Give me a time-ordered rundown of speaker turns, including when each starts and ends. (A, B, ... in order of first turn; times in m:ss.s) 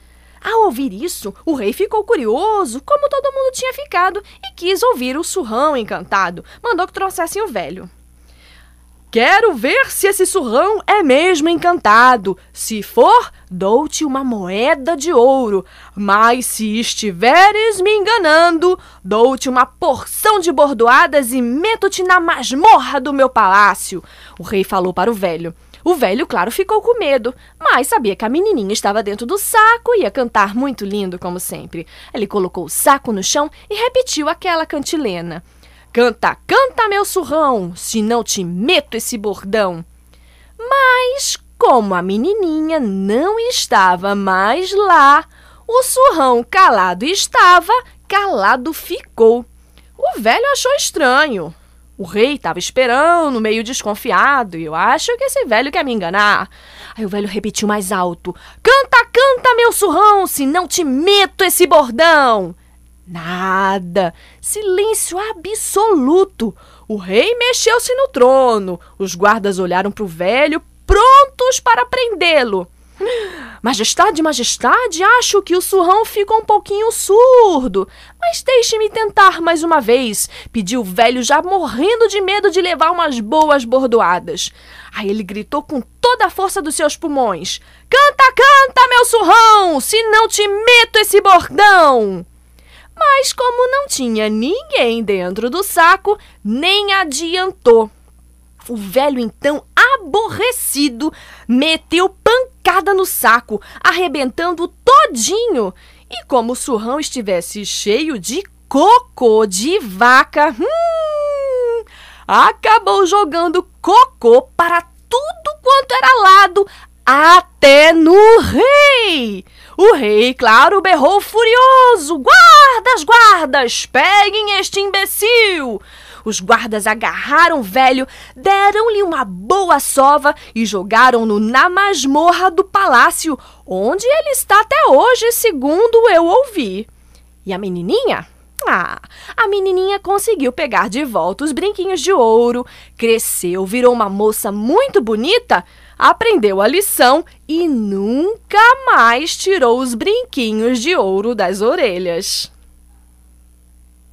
0:00.4-0:07.9 A
0:09.1-0:39.8 A
0:40.6-0:49.5 A
0:50.0-1:02.6 A
1:03.1-1:32.3 A
1:33.0-1:37.9 A
1:38.7-2:16.9 A
2:17.4-2:32.5 A